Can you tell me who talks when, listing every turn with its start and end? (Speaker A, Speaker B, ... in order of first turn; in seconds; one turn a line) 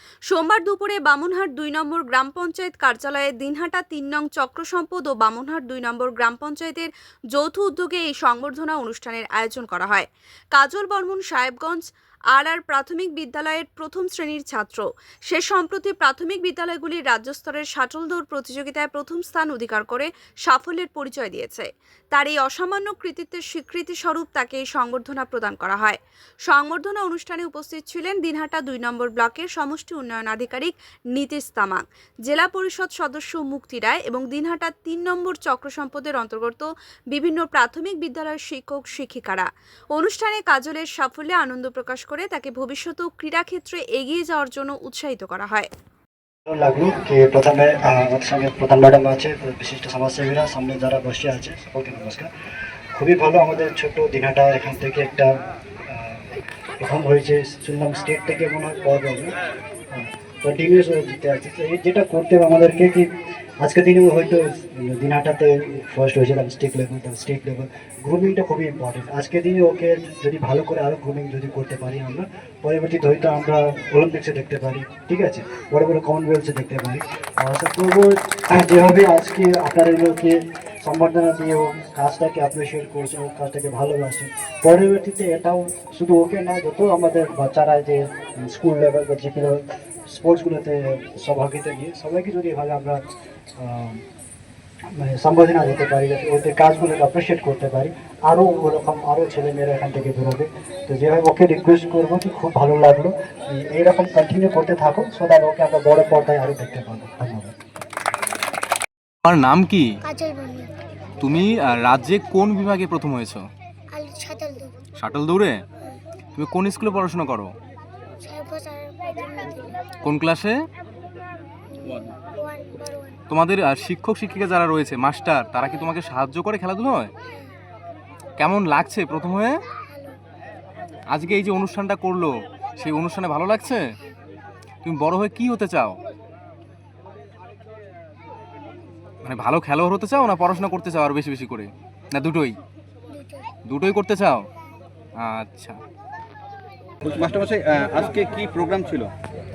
Speaker A: 0.3-45.7
Speaker B: 46.5-52.3
Speaker B: 53.0-55.3
Speaker B: 55.9-56.2
Speaker B: 56.8-59.3
Speaker B: 59.9-63.1
Speaker B: 63.6-93.0
Speaker B: 93.6-94.0
Speaker B: 95.0-107.5
Speaker C: 109.2-109.9
Speaker D: 110.0-110.7
Speaker C: 111.2-113.5
Speaker D: 113.9-114.8
Speaker C: 115.0-115.6
Speaker C: 116.3-117.5
Speaker D: 118.2-119.7
Speaker C: 120.0-120.6
Speaker D: 121.7-123.2
Speaker C: 123.3-127.1
Speaker D: 127.2-127.5
Speaker C: 128.4-129.6
Speaker D: 129.8-130.2
Speaker C: 131.1-133.9
Speaker C: 134.8-136.0
Speaker C: 139.2-142.6
Speaker D: 143.1-143.5
Speaker C: 143.7-144.5
Speaker C: 145.2-145.8
Speaker E: 147.1-149.1